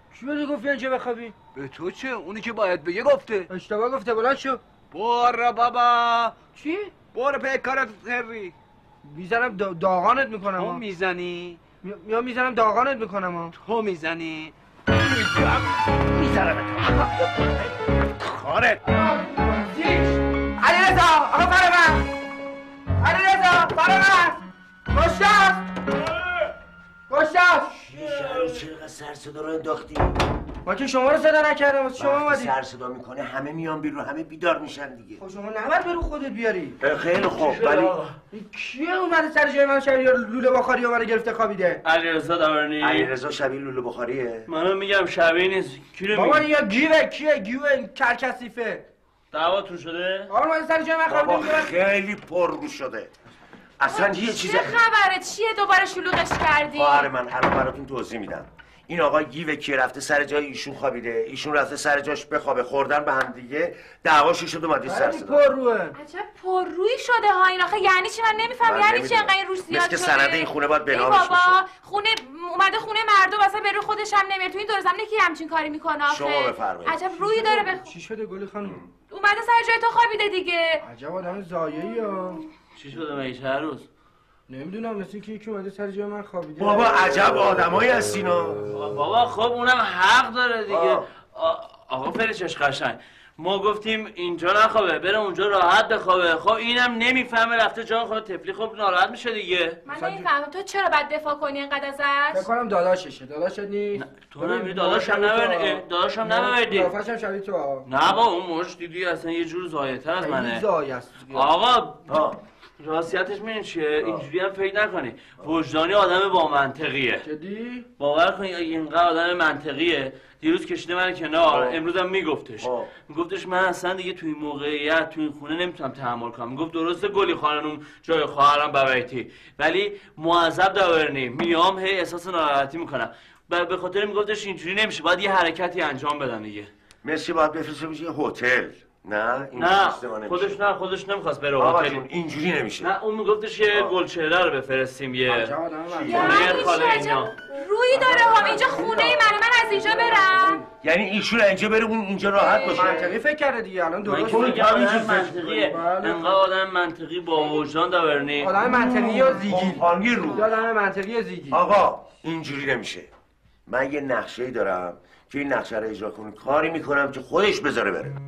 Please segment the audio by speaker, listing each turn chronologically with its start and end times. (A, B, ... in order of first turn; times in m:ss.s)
0:00.1-0:01.3 A
0:01.5-0:03.5 B
0:03.5-0:04.6 A
0:04.9-0:06.4 B
0:06.5-0:06.9 A
0:07.0-0:08.5 B
0:09.0-0:10.8 A
0:10.6-0:11.6 B
0:11.8-0:13.5 A
0:13.5-0:18.8 B
0:18.8-0:22.0 A
0:23.0-0:25.7 A
0:27.1-0:27.8 A
0:27.7-0:30.2 C
0:30.6-0:32.5 A
0:32.0-0:35.2 C
0:35.2-0:36.8 A
0:36.8-0:38.1 C
0:37.2-0:38.0 D
0:38.3-0:41.8 A
0:41.8-0:43.1 D
0:42.8-0:44.5 C
0:44.5-0:46.5 D
0:46.1-0:48.9 A
0:49.3-0:50.3 D
0:50.3-0:51.7 A
0:51.1-0:53.1 C
0:53.8-0:54.8 C
0:53.9-0:57.1 E
0:56.7-1:05.5 C
1:04.8-1:05.9 A
1:06.0-1:17.9 E
1:08.6-1:11.6 C
1:16.1-1:17.0 C
1:17.2-1:18.8 A
1:19.1-1:20.8 E
1:20.8-1:22.4 A
1:22.8-1:23.9 D
1:24.5-1:27.1 A
1:26.6-1:28.6 C
1:28.7-1:39.8 D
1:30.7-1:31.0 C
1:39.8-1:42.5 E
1:39.9-1:40.3 A
1:42.3-1:47.9 A
1:43.9-1:46.9 D
1:47.9-1:50.6 D
1:50.2-1:51.5 A
1:51.3-1:52.1 D
1:52.1-1:52.4 C
1:52.8-1:57.2 D
1:54.0-1:54.2 C
1:57.2-1:57.8 A
1:58.0-2:16.7 D
2:01.4-2:01.8 C
2:02.6-2:02.9 C
2:17.0-2:20.6 C
2:19.6-2:22.0 D
2:21.6-2:22.9 C
2:22.8-2:27.3 D
2:23.7-2:23.9 C
2:25.3-2:26.6 A
2:25.9-2:26.3 C
2:26.1-2:30.6 E
2:27.9-2:30.6 A
2:30.8-2:33.1 C
2:32.4-2:36.4 A
2:34.0-2:38.6 D
2:34.3-2:35.2 C
2:38.4-2:41.6 A
2:38.6-2:40.5 C
2:41.5-2:43.1 C
2:43.7-2:48.2 C